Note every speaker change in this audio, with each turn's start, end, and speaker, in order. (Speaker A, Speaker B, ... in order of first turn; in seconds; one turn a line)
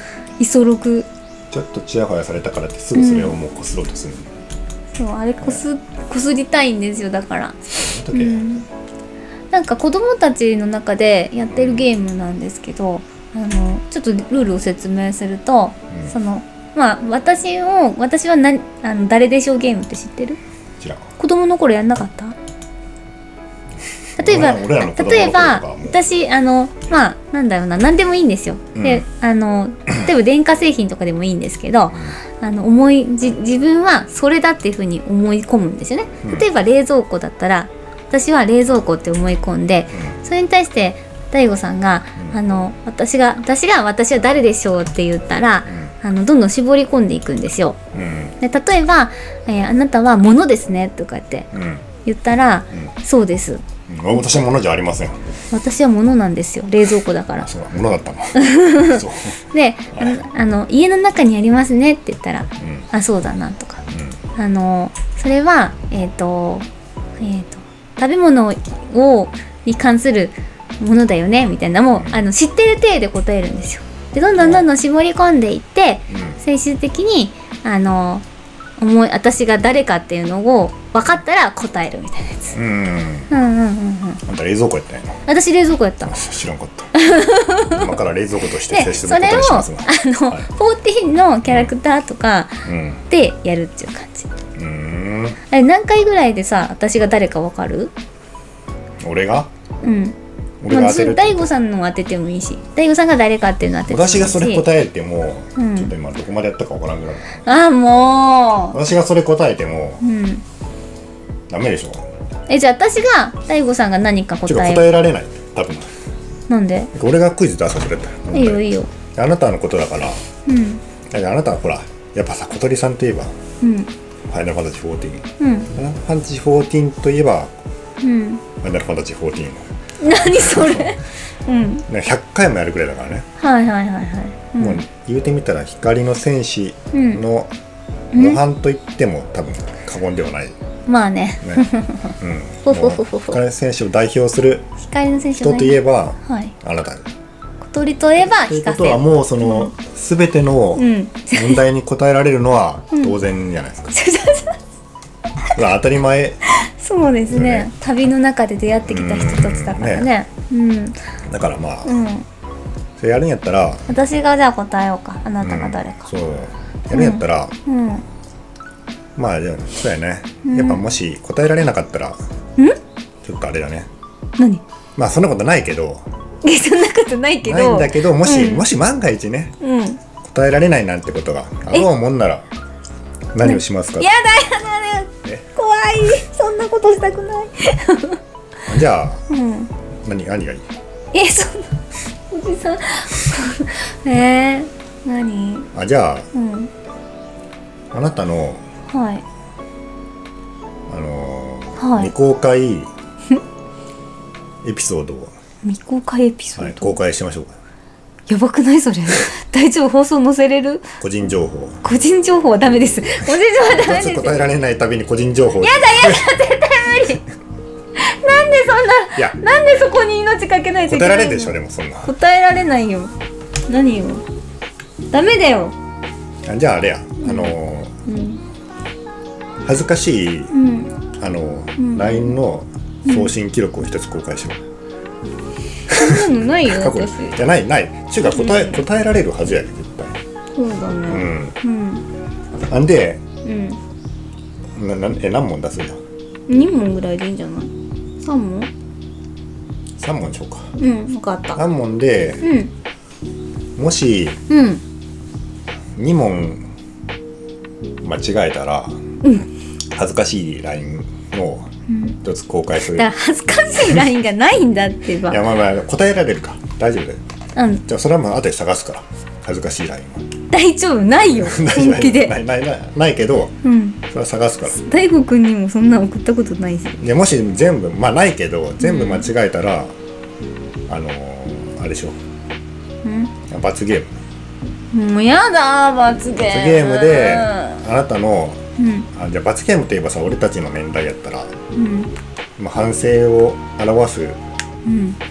Speaker A: 0.4-1.1
Speaker B: 1.5-4.3
Speaker A: 3.0-3.4
Speaker A: 5.0-7.6
Speaker B: 7.8-8.5
Speaker A: 8.1-8.7
Speaker A: 9.5-20.4
Speaker B: 11.5-11.9
Speaker B: 20.8-21.1
Speaker A: 21.2-22.4
Speaker B: 24.2-26.0
Speaker A: 24.2-47.8
Speaker B: 28.8-29.1
Speaker B: 47.9-48.4
Speaker A: 48.4-51.5
Speaker B: 51.5-51.9
Speaker A: 52.0-53.6
Speaker B: 53.9-55.2
Speaker A: 55.5-57.5
Speaker B: 57.4-59.4
Speaker A: 58.4-66.7
Speaker B: 60.0-60.2
Speaker B: 62.6-62.9
Speaker B: 63.9-64.2
Speaker A: 67.2-78.2
Speaker B: 71.9-72.2
Speaker B: 74.4-74.7
Speaker B: 76.1-76.4
Speaker A: 78.8-82.6
Speaker B: 82.5-83.3
Speaker A: 83.3-84.2
Speaker B: 84.2-85.2
Speaker A: 85.3-86.2
Speaker B: 86.0-86.9
Speaker A: 87.0-87.9
Speaker B: 87.7-90.5
Speaker A: 88.7-94.3
Speaker B: 92.7-93.0
Speaker B: 94.5-95.4
Speaker A: 95.5-97.9
Speaker B: 99.0-99.5
Speaker A: 99.8-100.2
Speaker B: 100.6-101.5
Speaker A: 100.7-104.7
Speaker B: 103.9-107.4
Speaker A: 105.6-105.9
Speaker A: 107.5-108.8
Speaker B: 108.7-110.0
Speaker A: 110.0-110.4
Speaker B: 111.5-112.1
Speaker A: 112.5-114.9
Speaker B: 114.5-115.9
Speaker A: 116.5-116.9
Speaker B: 116.9-120.2
Speaker A: 118.3-118.9
Speaker A: 120.5-120.8
Speaker B: 121.1-123.3
Speaker A: 123.6-123.9
Speaker B: 124.3-127.5
Speaker A: 125.4-125.7
Speaker A: 128.0-128.4
Speaker B: 128.6-131.0
Speaker A: 130.0-131.9
Speaker B: 131.9-133.3
Speaker A: 133.4-134.8
Speaker B: 134.6-137.5
Speaker A: 136.9-137.2
Speaker A: 138.1-138.4
Speaker B: 138.2-140.6
Speaker A: 140.9-142.1
Speaker B: 141.4-141.7
Speaker B: 142.2-144.7
Speaker A: 142.7-143.4
Speaker A: 144.8-146.5
Speaker B: 145.3-147.1
Speaker A: 147.6-149.7
Speaker B: 148.2-153.9
Speaker A: 150.8-151.6
Speaker A: 153.9-154.6
Speaker B: 155.6-156.4
Speaker A: 156.6-161.0
Speaker B: 157.3-157.7
Speaker B: 158.8-160.1
Speaker B: 161.3-162.0
Speaker A: 161.8-162.2
Speaker B: 163.0-163.8
Speaker A: 163.9-166.1
Speaker B: 165.4-167.6
Speaker A: 166.9-168.1
Speaker B: 169.2-172.2
Speaker A: 170.4-170.9
Speaker B: 173.2-173.9
Speaker B: 175.0-176.1
Speaker A: 176.4-178.7
Speaker B: 177.4-179.6
Speaker A: 179.6-180.0
Speaker B: 180.2-182.4
Speaker B: 183.3-184.1
Speaker A: 183.4-188.2
Speaker B: 188.7-189.2
Speaker A: 189.3-189.7
Speaker B: 190.0-190.7
Speaker A: 191.1-191.7
Speaker A: 192.3-195.7
Speaker B: 195.7-196.3
Speaker A: 196.3-196.7
Speaker B: 197.9-198.6
Speaker A: 198.9-199.2
Speaker B: 200.9-202.9
Speaker A: 201.8-202.1
Speaker B: 204.6-205.3
Speaker A: 205.6-206.9
Speaker B: 206.6-207.6
Speaker A: 208.3-210.9
Speaker B: 211.0-211.8
Speaker A: 211.8-214.5
Speaker B: 213.7-216.3
Speaker A: 215.6-217.2
Speaker A: 218.0-223.1
Speaker B: 220.9-222.1
Speaker A: 223.7-224.2
Speaker A: 225.1-225.8
Speaker B: 226.5-227.9
Speaker A: 227.2-227.5
Speaker A: 228.1-228.4
Speaker B: 229.6-230.5
Speaker A: 230.5-230.9
Speaker B: 231.2-234.6
Speaker A: 231.8-232.3
Speaker A: 233.1-233.3
Speaker A: 235.9-237.4
Speaker B: 235.9-240.2
Speaker A: 238.3-238.8
Speaker A: 240.6-242.1
Speaker B: 241.1-241.6
Speaker B: 242.7-243.2
Speaker A: 243.4-243.8
Speaker B: 244.8-246.0
Speaker A: 246.5-248.7
Speaker B: 250.0-250.7
Speaker A: 250.8-251.6
Speaker B: 251.6-252.4
Speaker A: 252.4-252.7
Speaker B: 253.8-254.4
Speaker A: 254.5-254.8
Speaker B: 255.9-256.6
Speaker B: 258.0-259.0
Speaker B: 259.9-261.7
Speaker A: 261.9-262.2
Speaker B: 262.2-263.1
Speaker A: 262.9-265.4
Speaker B: 265.3-267.2
Speaker A: 267.6-267.8
Speaker B: 267.9-270.3
Speaker A: 270.5-272.4
Speaker B: 271.2-274.8
Speaker A: 273.6-274.0
Speaker A: 274.8-277.0
Speaker B: 277.0-279.9
Speaker A: 278.8-279.3
Speaker B: 280.9-282.2
Speaker A: 283.0-283.3
Speaker B: 283.5-284.2
Speaker A: 284.9-287.8
Speaker B: 286.4-288.6
Speaker A: 288.8-289.1
Speaker B: 289.1-291.6
Speaker A: 291.7-292.1
Speaker B: 292.6-294.4
Speaker A: 294.9-295.2